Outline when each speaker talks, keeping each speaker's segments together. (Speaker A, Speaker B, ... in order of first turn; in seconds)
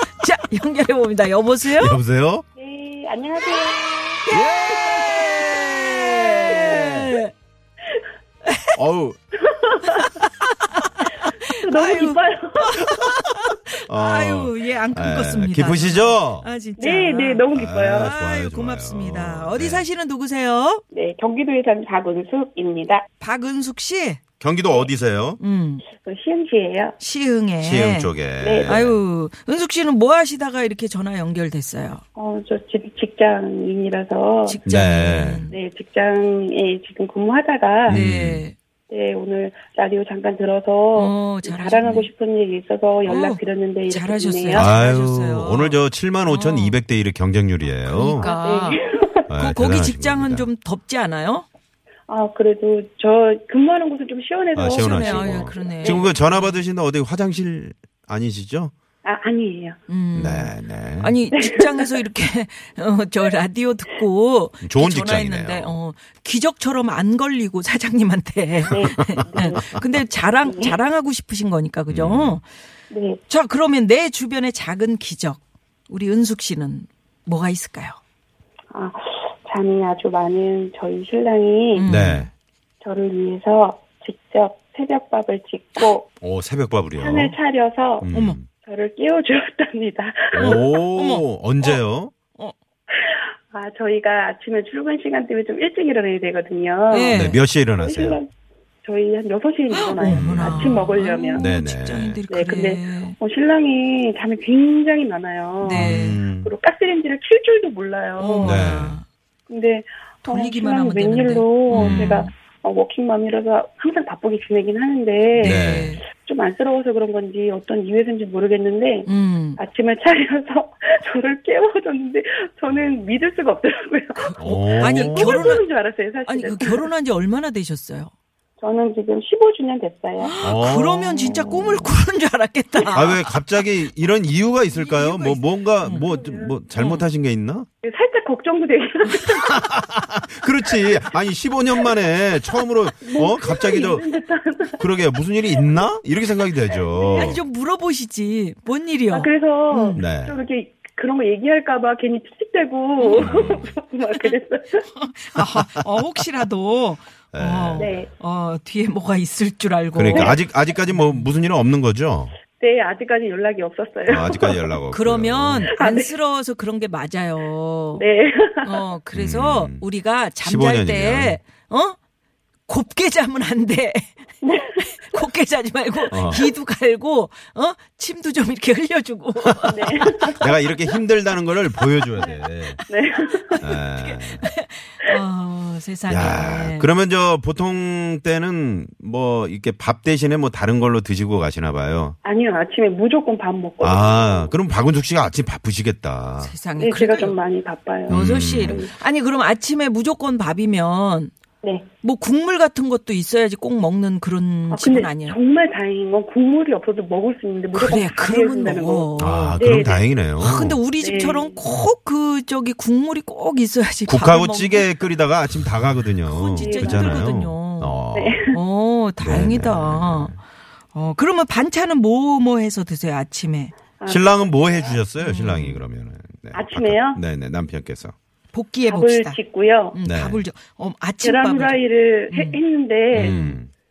Speaker A: 0.2-2.0, 4.3-7.3, 8.4-8.7, 9.9-20.8, 23.2-24.2, 25.4-25.9, 27.0-28.1, 28.6-32.0, 34.5-35.5, 37.9-38.5, 40.9-42.1, 43.0-46.8, 47.8-51.5, 54.6-56.6, 59.9-72.5, 73.3-78.0, 81.7-82.3, 88.1-88.4, 90.3-91.8, 96.9-97.4, 99.7-103.2, 105.6-106.2, 108.2-109.0, 110.2-112.3, 115.3-116.0, 119.0-119.6, 124.2-125.6, 126.2-128.1, 130.2-133.7, 134.7-136.1, 136.7-137.1, 147.1-150.0, 153.0-153.6, 154.9-161.3, 164.9-168.0, 168.6-172.0, 172.7-174.1, 174.7-180.1, 183.3-186.9, 196.4-197.4, 198.1-201.3, 202.0-205.4, 207.7-209.9, 210.4-214.9, 216.2-218.0, 218.5-220.4, 220.9-223.7, 225.2-225.8, 228.5-229.4, 229.9-232.6, 233.1-233.6
Speaker B: 1.7-2.4, 4.3-5.1, 6.5-6.8, 8.7-9.2, 13.0-16.5, 17.5-19.9, 24.4-25.4, 27.6-29.0, 34.6-35.5, 37.9-38.4, 44.5-48.3, 49.3-50.5, 54.5-58.7, 60.1-61.1, 64.6-65.8, 71.9-72.4, 81.8-82.3, 86.2-87.3, 88.0-88.5, 90.3-92.1, 97.1-98.2, 100.0-100.8, 101.3-102.2, 105.7-106.5, 108.4-109.0, 111.7-112.2, 115.4-116.0, 124.4-125.6, 130.4-131.5, 132.9-137.7, 139.4-144.0, 144.7-147.4, 149.9-150.4, 153.2-153.7, 157.3-157.9, 159.9-162.3, 164.1-165.7, 169.1-169.8, 170.4-171.4, 176.1-176.5, 180.2-182.8, 183.6-184.4, 186.1-192.2, 193.8-196.5, 198.1-198.8, 209.2-210.8, 214.1-218.4, 219.2-220.4, 224.1-228.1, 230.0-230.4, 233.1-233.7
Speaker C: 2.6-5.4, 6.2-7.0, 9.5-10.1, 11.5-12.8, 16.8-18.1, 20.9-23.1, 25.9-26.9, 28.4-28.8, 32.1-34.6, 35.5-38.0, 38.9-44.7, 48.0-49.3, 52.1-56.1, 59.0-59.8, 61.3-61.9, 68.7-69.6, 70.5-70.8, 72.9-73.2, 78.7-81.9, 82.8-86.1, 87.0-88.1, 88.6-90.8, 93.0-97.2, 97.8-98.3, 98.8-101.4, 102.3-108.6, 109.5-126.8, 128.6-130.3, 135.9-136.5, 137.8-139.6, 143.0-144.9, 146.8-147.4, 149.1-154.8, 157.8-158.1, 160.1-160.3, 162.6-164.7, 165.7-166.1, 168.0-168.8, 174.4-174.8, 179.7-180.5, 182.9-183.6, 192.2-194.5, 196.8-198.9, 204.7-210.0, 211.0-211.6, 216.6-217.2, 218.1-218.6, 224.0-224.2, 226.5-227.2, 228.9-230.0, 231.2-233.4